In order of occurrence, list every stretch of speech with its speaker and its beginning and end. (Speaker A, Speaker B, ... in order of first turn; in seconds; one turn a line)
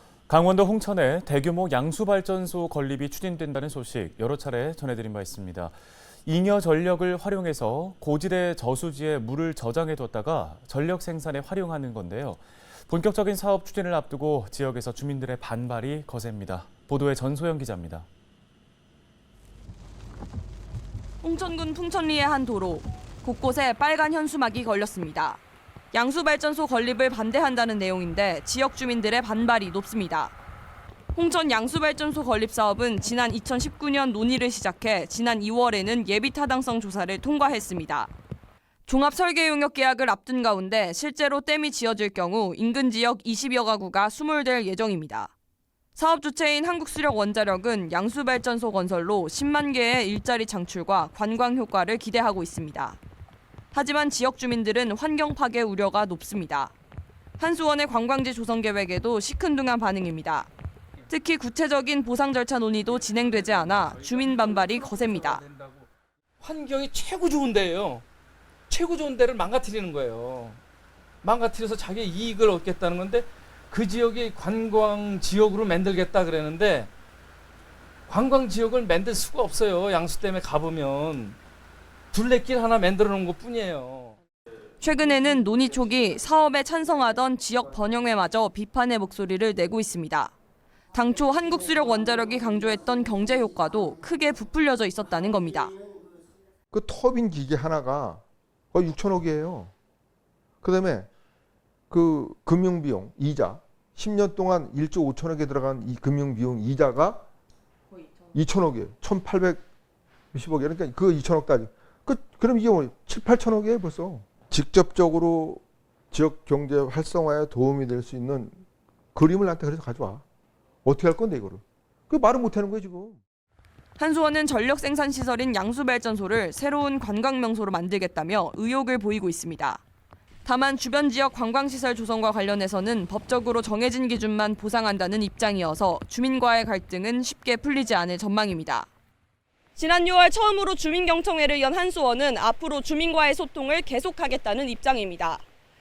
Speaker A: 0.3-18.1
Speaker B: 21.2-25.4
Speaker B: 25.9-30.3
Speaker B: 31.1-38.1
Speaker B: 38.9-45.3
Speaker B: 46.0-53.0
Speaker B: 53.7-56.7
Speaker B: 57.4-60.5
Speaker B: 61.1-65.4
Speaker C: 62.9-65.9
Speaker C: 66.4-68.0
Speaker C: 68.7-70.6
Speaker C: 71.2-76.9
Speaker C: 78.1-81.4
Speaker C: 82.1-84.2
Speaker B: 84.8-90.3
Speaker B: 90.9-95.8
Speaker D: 96.7-98.2
Speaker D: 98.7-99.7
Speaker D: 100.6-101.1
Speaker D: 101.9-107.2
Speaker D: 108.3-109.6
Speaker D: 110.3-118.6
Speaker D: 119.1-120.2
Speaker D: 120.8-123.2
Speaker B: 124.0-129.8
Speaker B: 130.4-138.9
Speaker B: 139.8-145.4